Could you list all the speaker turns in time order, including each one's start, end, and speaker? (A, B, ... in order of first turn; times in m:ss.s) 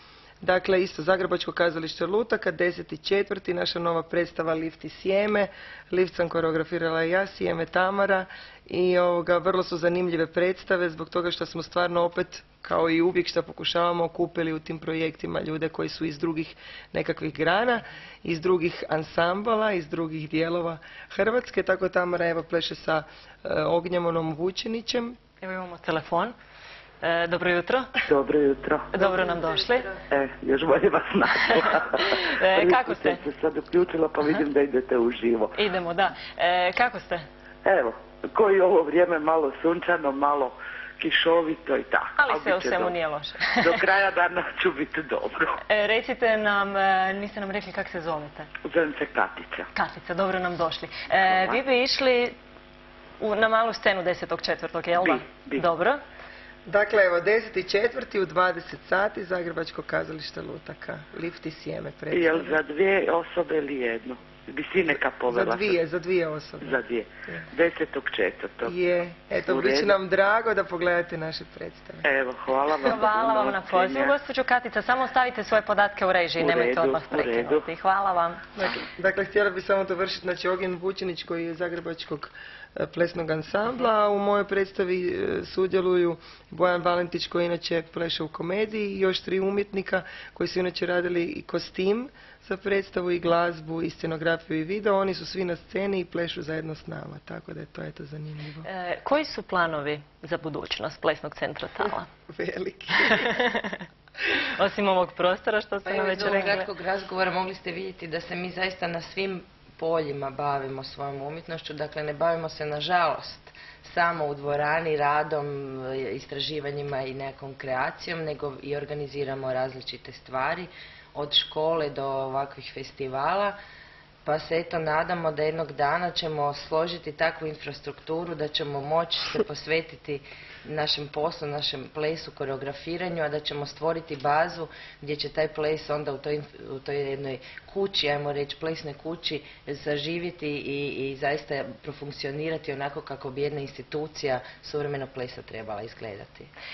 0:00.4-0:25.2 A
0:25.4-0:26.4 B
0:27.0-0:28.0 B
0:28.0-0:28.9 C
0:28.9-0:29.9 B
0:29.0-0:30.0 A
0:30.1-0:35.5 C
0:31.6-0:33.2 B
0:35.5-0:37.3 B
0:37.6-0:42.9 C
0:42.2-0:43.8 B
0:43.6-0:45.6 C
0:45.7-0:48.5 B
0:48.6-0:49.7 C
0:49.8-0:52.4 B
0:51.3-0:51.6 C
0:53.2-0:56.0 B
0:55.0-0:55.6 C
0:56.7-1:02.6 A
1:02.1-1:05.8 C
1:05.3-1:06.8 A
1:06.6-1:08.7 C
1:08.6-1:12.1 A
1:09.4-1:10.0 C
1:12.0-1:14.1 C
1:12.8-1:18.4 B
1:16.4-1:17.7 C
1:18.6-1:38.7 A
1:38.6-1:42.1 B
1:42.3-1:43.3 A
1:43.0-1:43.8 B
1:44.4-1:46.7 B
1:45.8-2:03.6 D
2:04.2-2:26.5 D